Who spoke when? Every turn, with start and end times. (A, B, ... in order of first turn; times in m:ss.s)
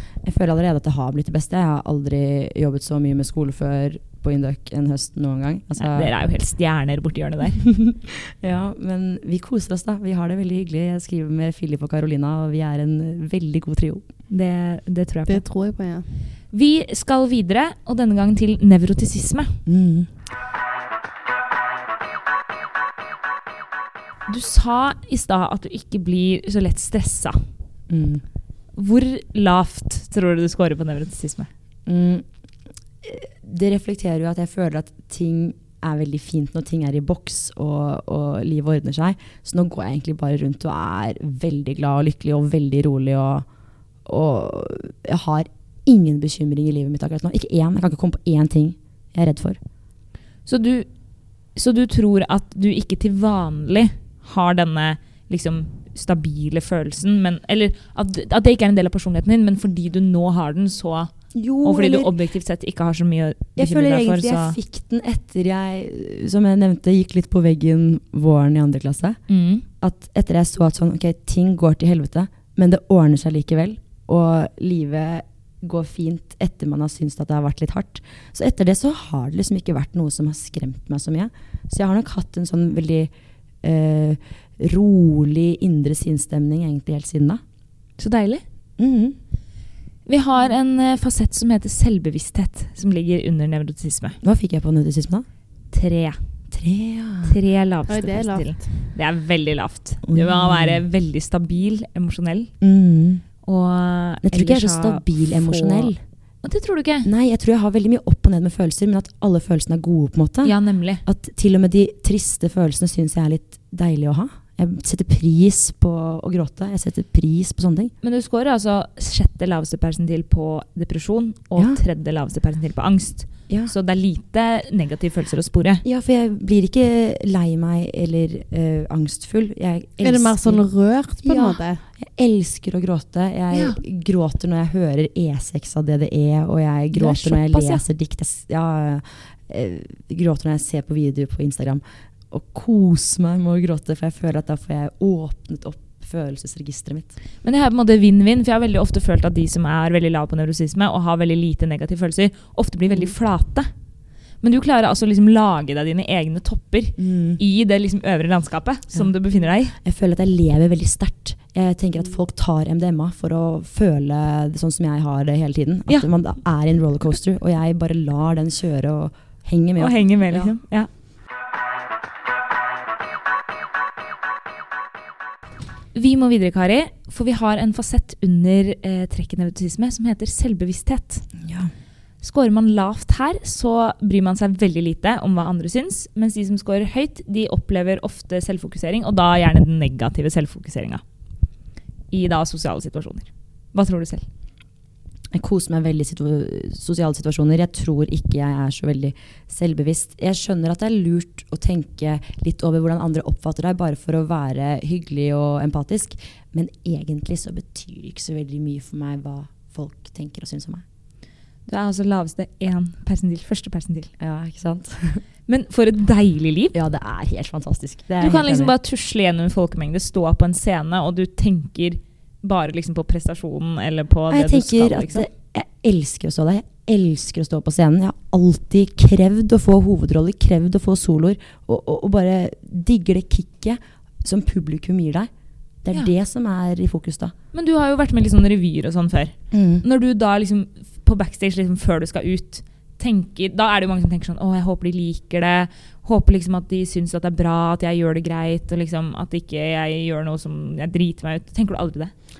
0:00.2-0:06.1 A
0:05.8-0:07.6 B
0:07.6-0:14.0 A
0:14.3-0:15.4 B
0:15.3-0:16.0 C
0:16.5-0:19.6 B
0:19.7-0:20.1 A
0:24.3-0:27.4 B
0:27.9-0:28.2 A
0:28.8-0:31.5 B
0:31.9-0:32.3 A
0:33.0-0:43.5 A
0:44.1-0:49.6 A
0:50.5-0:50.9 B
0:51.6-1:01.1 B
1:01.3-1:02.1 A
1:01.6-1:04.6 B
1:03.6-1:09.2 A
1:09.3-1:09.6 B
1:09.8-1:23.1 A
1:23.6-1:27.4 A
1:28.0-1:28.4 B
1:28.8-1:29.2 A
1:30.1-1:34.2 B
1:34.2-1:35.3 A
1:35.7-1:36.2 B
1:36.5-1:37.4 A
1:37.2-1:42.5 B
1:37.9-1:38.7 C
1:40.0-1:40.8 A
1:42.6-1:43.2 A
1:43.4-1:47.1 B
1:44.2-1:46.0 A
1:47.0-1:57.9 A
1:50.4-1:51.0 B
1:58.0-2:05.8 B
2:05.8-2:10.6 A
2:10.0-2:11.8 C
2:11.2-2:27.1 A
2:13.5-2:13.8 B
2:16.9-2:17.8 B
2:27.4-2:33.7 B
2:34.4-2:39.8 B
2:37.0-2:37.4 A
2:39.8-2:50.6 A
2:49.8-2:50.9 B
2:56.0-3:01.3 B
3:01.4-3:01.7 A
3:02.2-3:11.0 B
3:12.1-3:14.3 B
3:15.3-3:30.8 A
3:31.7-3:34.1 B
3:34.2-3:35.2 A
3:35.5-3:36.8 B
3:36.7-3:38.7 A
3:38.2-3:45.3 B
3:44.3-3:55.3 A
3:55.8-3:57.3 A
3:57.5-4:12.1 B
3:59.5-3:59.8 A